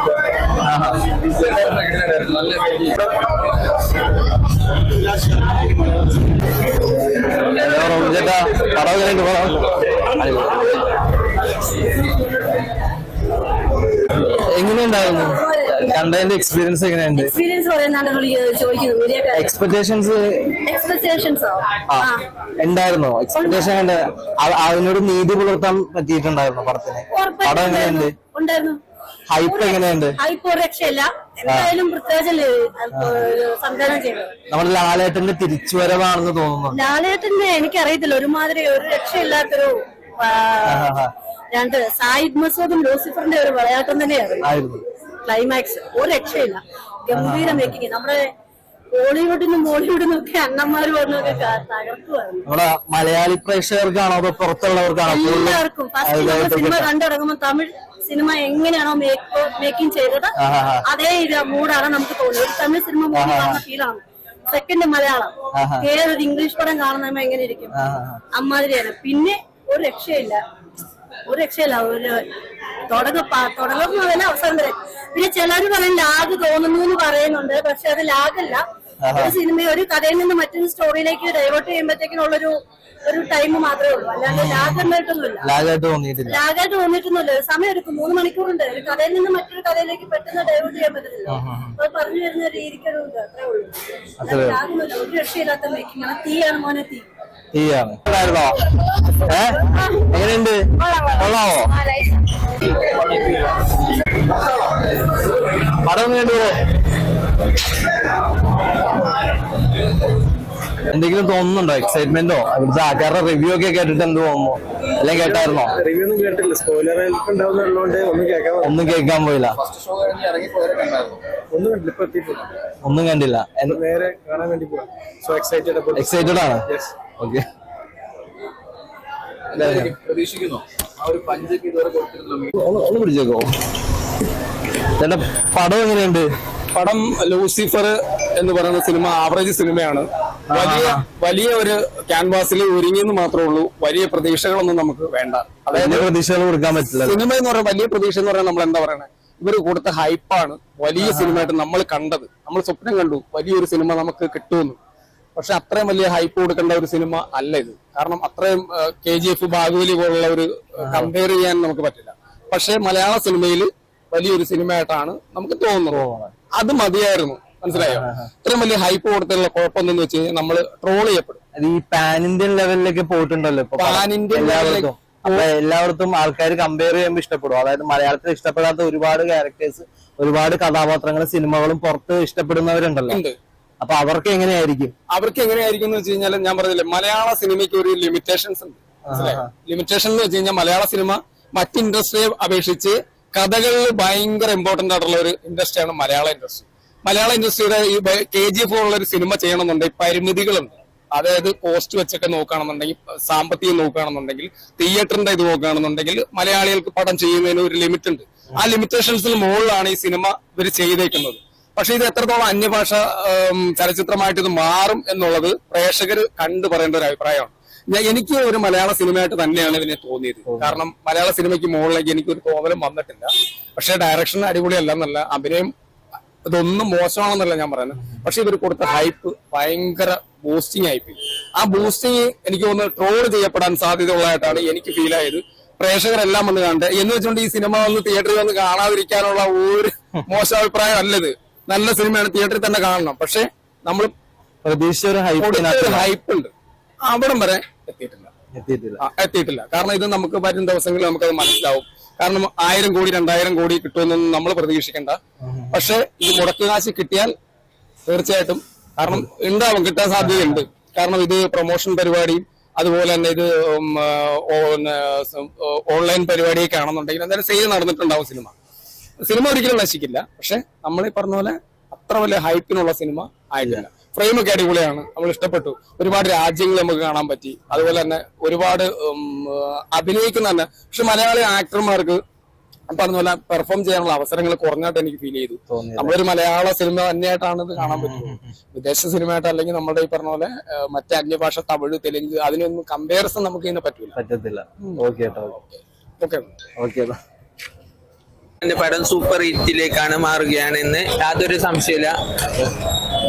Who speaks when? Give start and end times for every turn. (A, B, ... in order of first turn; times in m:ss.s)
0:00.6-0:01.1 A
0:01.4-0:02.9 B
0:07.4-0:10.7 A
0:14.2-0:17.3 A
0:14.9-0:16.0 C
0:17.1-0:19.5 C
0:19.3-0:20.5 A
0:20.6-0:22.2 C
0:21.9-0:28.1 A
0:23.3-0:23.7 C
0:27.1-0:28.8 C
0:29.3-0:30.2 A
0:29.4-0:34.3 C
0:31.5-0:31.7 A
0:32.9-0:33.3 A
0:34.5-0:36.8 A
0:36.7-0:40.9 C
0:40.6-0:41.1 A
0:41.5-0:44.5 C
0:44.4-0:44.8 A
0:45.2-0:48.2 C
0:47.1-0:47.8 A
0:48.9-0:52.4 C
0:52.4-0:56.9 A
0:55.0-1:07.8 C
1:00.4-1:00.8 A
1:03.1-1:03.6 A
1:05.5-1:05.9 A
1:07.8-1:08.2 A
1:08.3-1:10.4 C
1:11.3-1:12.3 C
1:12.9-1:18.6 C
1:19.0-1:19.4 A
1:19.1-1:25.5 C
1:24.2-1:24.9 A
1:25.4-1:26.4 A
1:26.2-1:37.1 C
1:31.3-1:31.7 A
1:34.2-1:34.6 A
1:37.5-1:38.6 A
1:39.2-1:40.6 A
1:40.8-1:42.0 C
1:41.2-1:41.7 A
1:45.7-1:46.6 A
1:50.9-1:55.8 A
1:55.1-1:58.8 D
1:58.6-1:59.6 A
1:59.5-2:01.2 B
2:01.5-2:02.5 D
2:02.8-2:03.8 A
2:03.7-2:06.9 D
2:05.9-2:06.6 A
2:07.2-2:07.4 A
2:09.5-2:12.5 B
2:09.5-2:09.9 A
2:12.5-2:13.5 A
2:15.0-2:16.3 A
2:16.7-2:26.1 E
2:20.5-2:21.0 A
2:25.7-2:27.2 A
2:27.0-2:34.8 E
2:31.0-2:31.5 A
2:35.4-2:46.0 E
2:40.8-2:41.1 A
2:45.9-2:46.3 A
2:46.5-2:51.4 E
2:47.7-2:48.3 A
2:51.6-3:03.2 A
2:53.8-2:55.5 E
3:03.1-3:03.4 E
3:03.8-3:04.9 A
3:05.1-3:45.7 E
3:09.1-3:09.5 A
3:40.5-3:40.8 A
3:46.4-4:04.1 E
4:04.6-4:06.1 A
4:05.4-4:06.5 E
4:07.0-4:08.3 E
4:08.5-4:09.0 A
4:09.0-4:15.2 E
4:15.4-4:15.8 A
4:15.7-4:17.3 E
4:18.0-4:28.5 E
4:20.2-4:20.6 A
4:29.2-4:42.2 E
4:42.9-4:54.1 E
4:45.7-4:46.2 A
4:47.8-4:48.4 A
4:54.1-4:55.6 A
4:56.2-4:56.5 E
4:56.8-4:57.2 A
4:58.6-5:02.1 F